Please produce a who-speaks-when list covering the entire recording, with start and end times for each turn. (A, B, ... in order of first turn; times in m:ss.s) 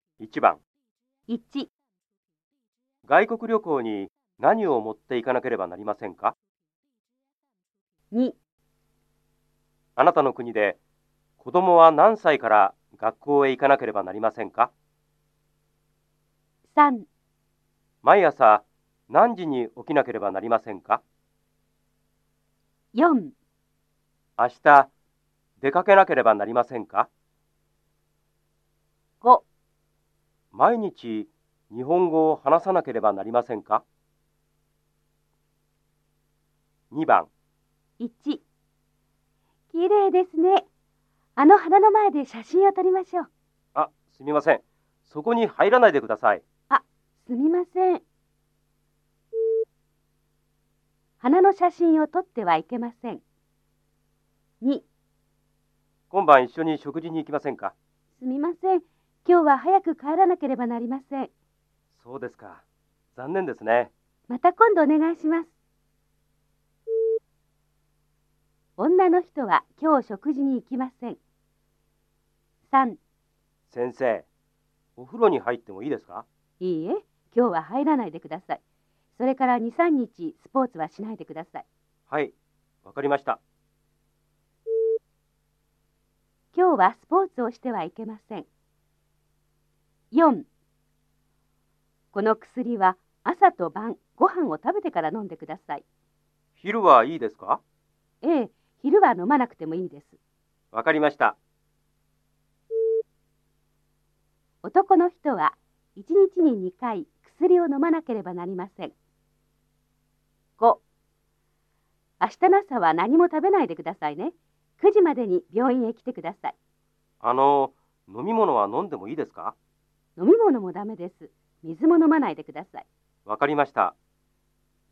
0:00.2-0:00.6 A
0:01.3-0:01.7 B
0:03.0-0:06.3 A
0:08.1-0:08.4 B
0:10.0-0:10.8 A
0:11.4-0:14.7 A
0:16.7-0:17.1 B
0:18.0-0:21.0 A
0:22.9-0:23.3 B
0:24.4-0:24.9 A
0:25.6-0:27.1 A
0:30.5-0:33.8 A
0:36.9-0:37.3 A
0:38.0-0:38.4 B
0:39.7-0:40.7 B
0:41.4-0:43.3 B
0:43.7-0:46.4 A
0:46.7-0:48.0 B
0:51.2-0:53.2 B
0:56.1-0:57.7 A
0:58.2-1:01.3 B
1:01.9-1:02.6 A
1:03.1-1:03.9 A
1:04.3-1:05.5 B
1:08.8-1:11.2 B
1:12.7-1:13.0 B
1:13.7-1:14.3 A
1:15.0-1:16.2 A
1:16.6-1:18.6 B
1:19.2-1:21.6 B
1:22.1-1:23.4 A
1:26.5-1:28.4 B
1:30.1-1:30.4 B
1:32.1-1:35.8 B
1:36.6-1:37.6 A
1:38.2-1:40.2 B
1:40.7-1:41.4 A
1:44.6-1:48.9 B
1:52.2-1:56.6 B
1:57.2-1:59.5 A
2:00.2-2:02.9 B
2:03.2-2:03.9 A